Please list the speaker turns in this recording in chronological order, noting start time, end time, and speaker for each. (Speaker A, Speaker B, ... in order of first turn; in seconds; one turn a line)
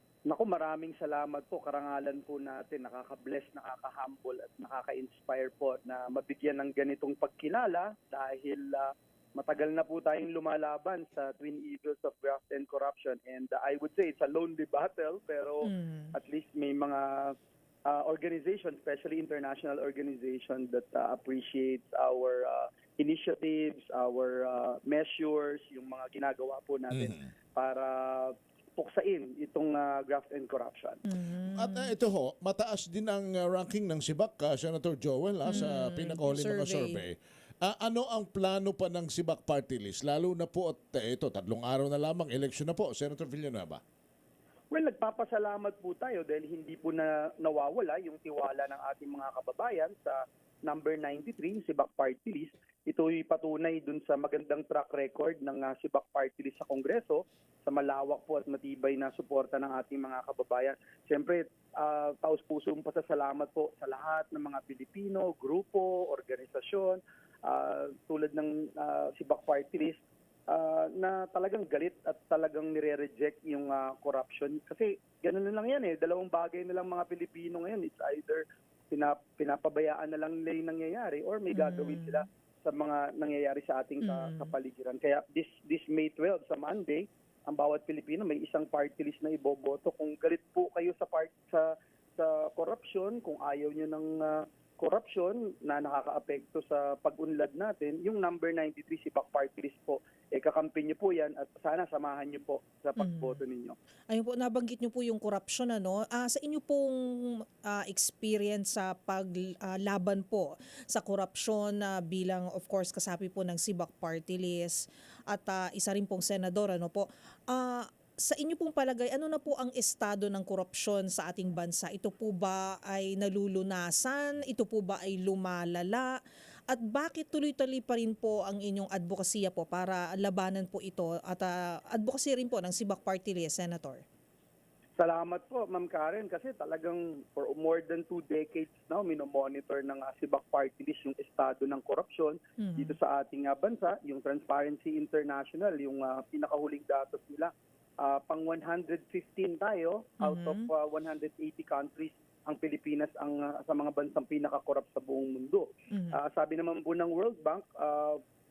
Speaker A: 0.3-17.3
Speaker B: 15.6-16.1
Speaker A: 17.9-31.0
Speaker C: 26.9-27.3
Speaker B: 31.1-31.9
Speaker C: 31.5-43.8
Speaker B: 35.5-37.0
Speaker A: 44.7-103.8
Speaker B: 81.5-82.2
Speaker B: 84.0-84.5
Speaker B: 103.0-103.4
Speaker B: 104.1-126.1
Speaker B: 126.7-134.0
Speaker A: 135.0-158.2
Speaker B: 142.6-142.9
Speaker B: 150.2-150.7
Speaker B: 155.9-156.2